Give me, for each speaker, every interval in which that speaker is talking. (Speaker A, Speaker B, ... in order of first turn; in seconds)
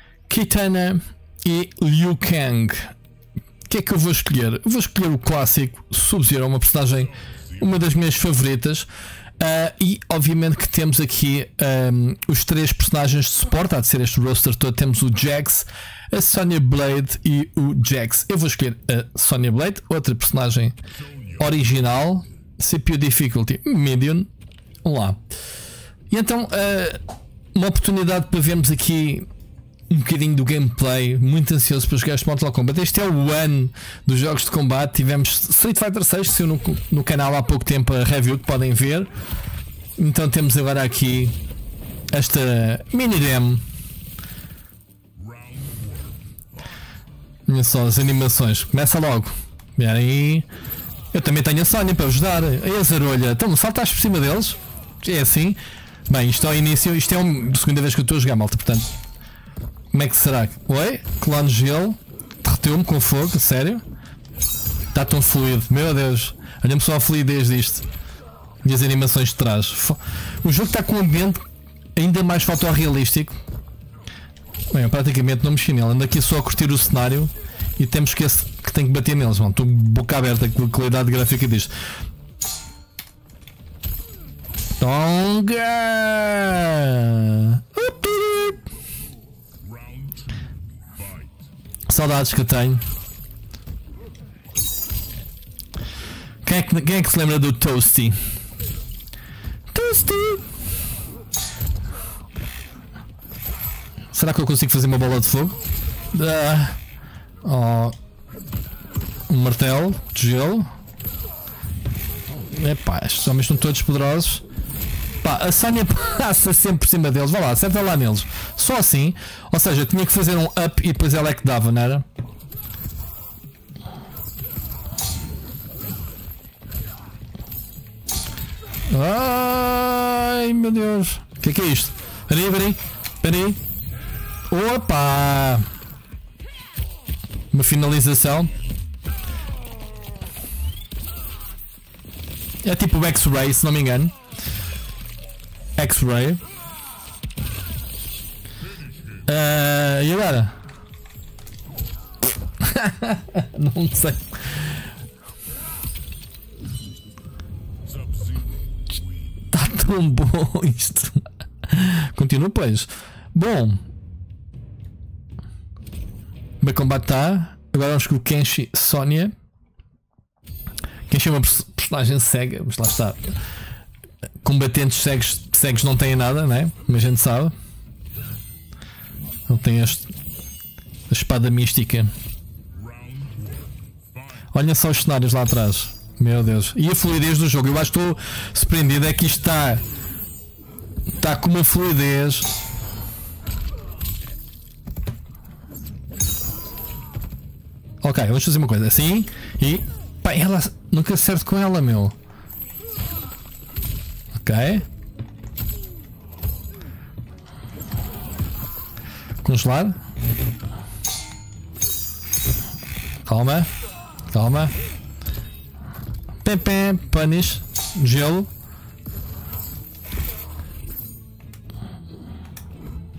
Speaker A: 0.3-2.9, 3.7-8.9, 9.4-20.8, 21.3-24.3, 24.8-25.2, 26.1-27.0, 27.5-29.3, 29.9-39.1, 40.0-41.4, 42.1-43.6, 47.5-50.5, 51.1-58.9, 59.9-63.8, 64.9-67.9, 68.6-71.4, 71.9-73.4, 74.7-81.7, 84.8-88.6, 91.9-92.8, 96.4-98.2, 99.7-100.4, 104.1-105.6, 106.1-106.8, 107.4-108.0, 109.3-110.7, 112.5-114.4, 115.2-122.0, 128.9-133.6, 134.5-135.7, 137.5-138.5, 142.6-144.1, 145.8-146.4, 149.3-150.6, 152.6-154.8, 159.5-163.8, 166.6-169.3, 171.1-173.3, 174.4-177.5, 179.5-180.1, 181.1-182.1, 184.5-189.8, 191.2-192.5, 198.0-202.2, 204.3-204.9, 209.4-210.0, 213.2-213.7, 214.3-214.7, 216.4-218.5